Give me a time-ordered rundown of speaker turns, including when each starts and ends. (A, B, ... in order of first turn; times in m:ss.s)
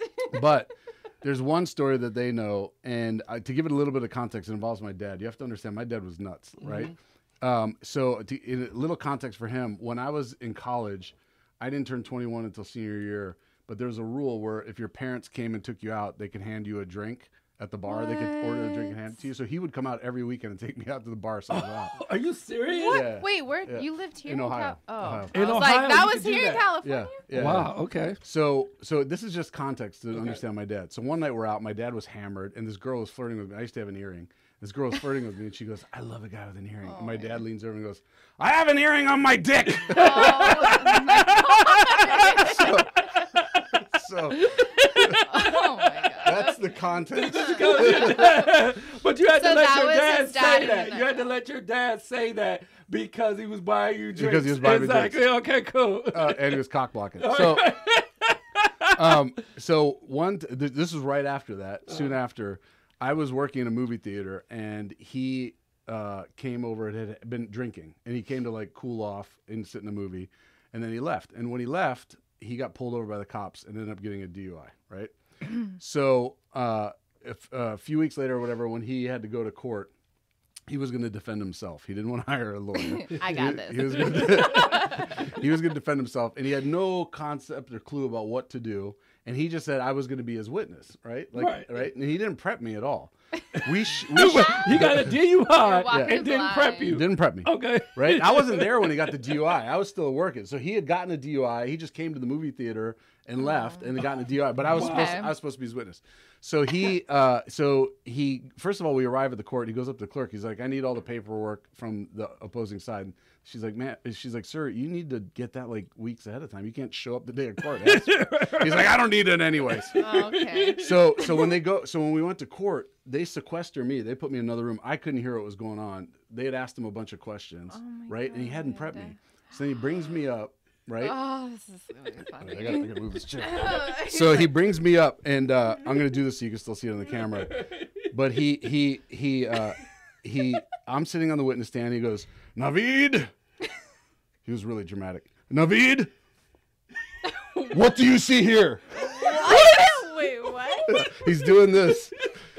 0:00.3-0:22.0 A
0:06.6-0:06.9 B
0:17.9-0:19.0 C
0:21.5-0:23.1 B
0:22.7-0:27.2 C
0:22.9-0:25.3 A
0:25.3-0:26.8 B
0:26.8-0:41.3 A
0:27.3-0:28.2 B
0:30.1-0:30.4 B
0:36.8-0:37.4 C
0:39.9-0:42.8 B
0:39.9-0:42.9 C
0:42.1-0:45.3 A
0:44.3-0:46.2 B
0:45.0-0:46.6 C
0:46.2-0:48.5 A
0:47.1-0:56.6 B
0:47.4-0:48.4 C
0:49.3-0:51.3 C
0:54.1-0:55.2 A
0:56.1-0:57.7 A
0:57.2-0:59.2 B
0:58.9-1:19.9 A
1:01.9-1:02.1 B
1:20.7-1:35.2 A
1:22.9-1:25.1 C
1:23.9-1:25.2 B
1:31.4-1:31.7 B
1:33.6-1:39.4 B
1:35.5-1:37.0 C
1:35.9-1:36.2 A
1:36.8-2:00.0 A
1:44.7-1:45.3 B
1:44.7-1:45.3 C
1:57.8-1:59.0 B
1:59.7-2:01.6 B
2:00.0-2:00.9 C
2:00.8-2:11.2 A
2:07.7-2:09.2 C
2:11.0-2:14.5 C
2:12.4-2:23.3 A
2:17.2-2:18.1 B
2:24.4-2:26.1 A
2:27.3-2:27.7 C
2:27.7-2:30.0 A
2:29.2-2:31.0 C
2:30.9-2:32.2 A